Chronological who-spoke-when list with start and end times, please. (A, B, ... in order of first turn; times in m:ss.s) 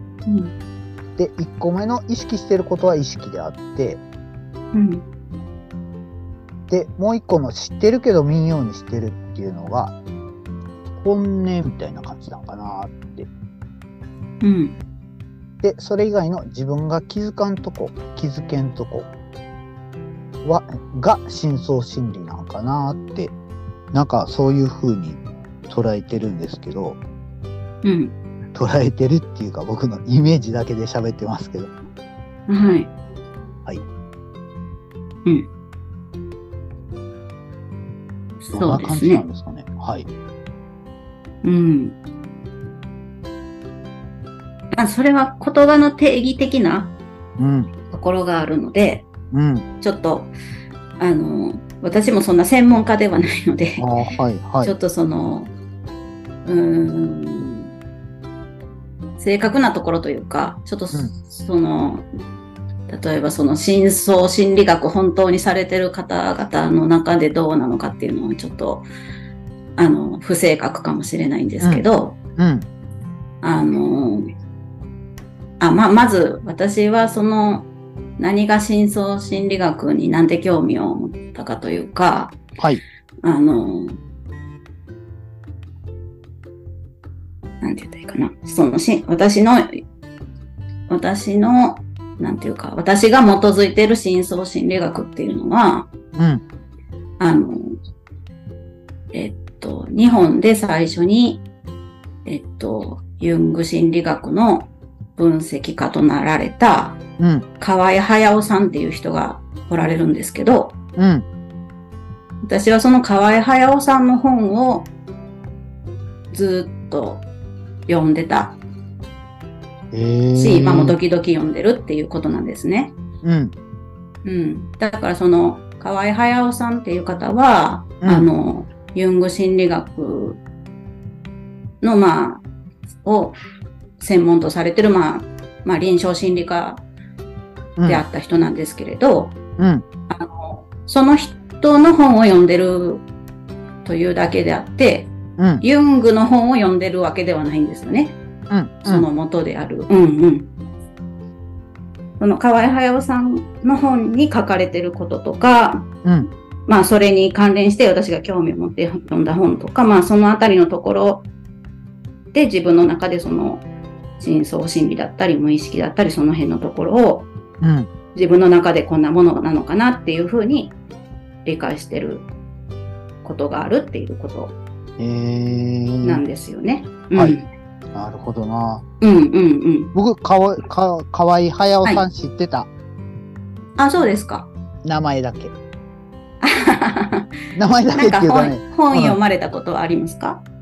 0:00.3-0:00.5 A
0:01.2-0:04.0 B
0:04.7-0:05.0 A
0:06.7-0:09.9 B
0:11.0-0:13.3 B
0:14.4-0:14.8 A
0:15.6-0:19.1 B
0:20.4-0:23.3 B
0:23.9-0:27.0 B
0:27.8-0:28.1 A
0:28.5-0:31.7 B
0:32.5-0:32.9 A
0:38.4-0:39.2 A
0:38.5-0:40.1 B
0:41.4-0:42.0 A
0:44.7-0:46.9 A
0:47.4-0:47.7 B
0:47.9-0:49.1 A
0:49.3-0:49.7 B
0:49.8-0:50.3 A
0:51.0-0:53.9 A
0:53.8-0:54.7 B
0:54.6-0:55.5 A
0:56.4-0:57.7 A
0:59.2-1:02.1 A
1:02.9-1:08.9 A
1:09.8-1:12.2 A
1:12.4-1:12.7 B
1:13.4-1:14.2 A
1:15.6-1:22.4 A
1:23.2-1:24.0 A
1:27.6-1:29.8 A
1:30.9-1:35.9 A
1:36.2-1:36.4 B
1:37.2-1:37.8 A
1:39.1-1:41.4 A
1:42.2-1:47.0 A
1:47.2-1:47.5 B
1:47.6-1:50.8 A
1:51.0-1:51.3 B
1:52.4-1:54.9 A
1:56.3-1:57.3 A
1:57.9-1:58.6 A
1:59.9-2:01.0 B
2:00.4-2:03.0 A
2:03.2-2:03.5 B
2:04.2-2:10.4 A
2:08.0-2:08.3 B
2:11.8-2:12.4 A
2:13.0-2:13.4 A
2:14.0-2:16.8 A
2:17.8-2:18.0 B
2:17.9-2:19.4 A
2:19.6-2:19.9 B
2:20.1-2:23.0 A
2:23.8-2:28.2 A
2:25.4-2:25.6 B
2:28.5-2:29.1 B
2:28.8-2:30.5 A
2:32.2-2:35.9 A
2:36.0-2:36.3 B
2:36.7-2:41.3 A
2:42.3-2:43.6 A
2:44.2-2:47.3 A
2:47.6-2:47.9 B
2:48.2-2:50.8 A
2:51.4-2:52.3 A
2:53.2-2:54.6 A
2:55.0-2:56.2 B
2:56.0-2:57.5 A
2:57.9-2:58.8 B
2:59.0-2:59.9 A
2:59.9-3:02.7 B
3:03.8-3:04.5 A
3:04.8-3:05.5 B
3:06.4-3:07.3 A
3:07.6-3:09.2 B
3:07.9-3:10.4 A